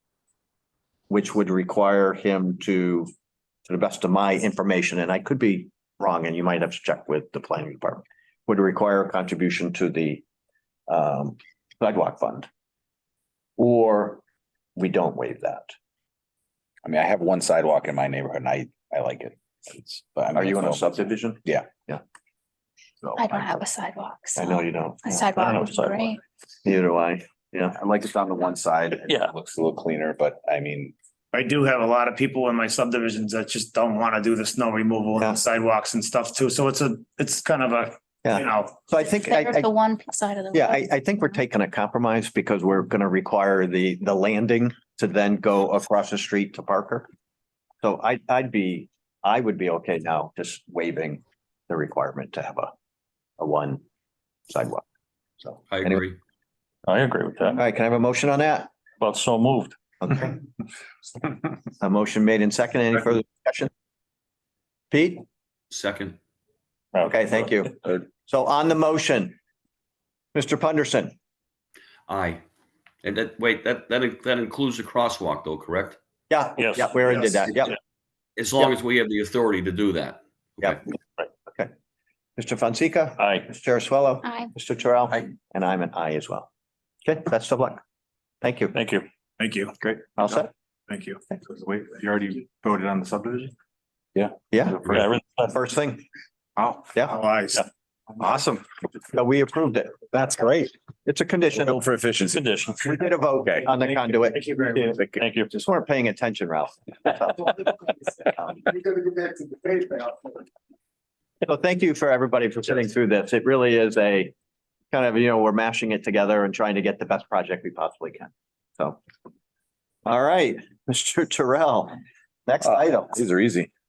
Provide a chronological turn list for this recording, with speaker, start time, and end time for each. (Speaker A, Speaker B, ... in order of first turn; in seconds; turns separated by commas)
Speaker A: 1.1-3.1, Speaker A: 3.7-10.2, Speaker A: 10.9-12.5, Speaker A: 13.6-14.2, Speaker A: 14.8-15.7, Speaker B: 16.8-20.9, Speaker A: 20.3-22.0, Speaker B: 21.4-21.7, Speaker A: 23.0-23.4, Speaker C: 23.1-26.2, Speaker A: 24.4-25.7, Speaker D: 25.6-26.0, Speaker A: 26.6-27.8, Speaker B: 27.7-30.9, Speaker D: 29.1-29.3, Speaker E: 31.3-38.9, Speaker A: 38.2-39.7, Speaker C: 38.9-40.9, Speaker A: 40.5-47.1, Speaker A: 47.8-52.7, Speaker A: 53.4-53.8, Speaker A: 54.5-54.8, Speaker A: 55.4-56.0, Speaker F: 55.7-56.2, Speaker D: 56.9-57.6, Speaker A: 57.5-58.7, Speaker D: 59.0-59.8, Speaker A: 60.0-60.4, Speaker A: 61.8-63.7, Speaker A: 64.9-65.2, Speaker F: 65.7-66.2, Speaker D: 66.9-67.2, Speaker A: 67.0-69.3, Speaker A: 70.3-71.1, Speaker F: 72.1-72.4, Speaker F: 73.0-76.0, Speaker A: 76.3-77.8, Speaker D: 76.6-76.9, Speaker F: 78.4-80.8, Speaker A: 82.4-86.5, Speaker D: 83.2-83.5, Speaker C: 84.2-84.5, Speaker A: 87.0-87.8, Speaker A: 88.4-88.8, Speaker D: 88.7-89.1, Speaker E: 89.4-89.7, Speaker A: 89.8-90.5, Speaker G: 91.5-93.5, Speaker B: 92.0-92.4, Speaker B: 94.2-95.0, Speaker A: 94.5-96.1, Speaker D: 94.9-95.5, Speaker E: 97.0-97.6, Speaker B: 98.2-98.6, Speaker A: 99.1-101.8, Speaker B: 101.5-102.4, Speaker D: 102.3-102.8, Speaker A: 102.8-107.7, Speaker D: 105.2-105.5, Speaker A: 111.4-114.3, Speaker A: 114.9-119.0, Speaker A: 120.0-123.2, Speaker B: 122.6-123.7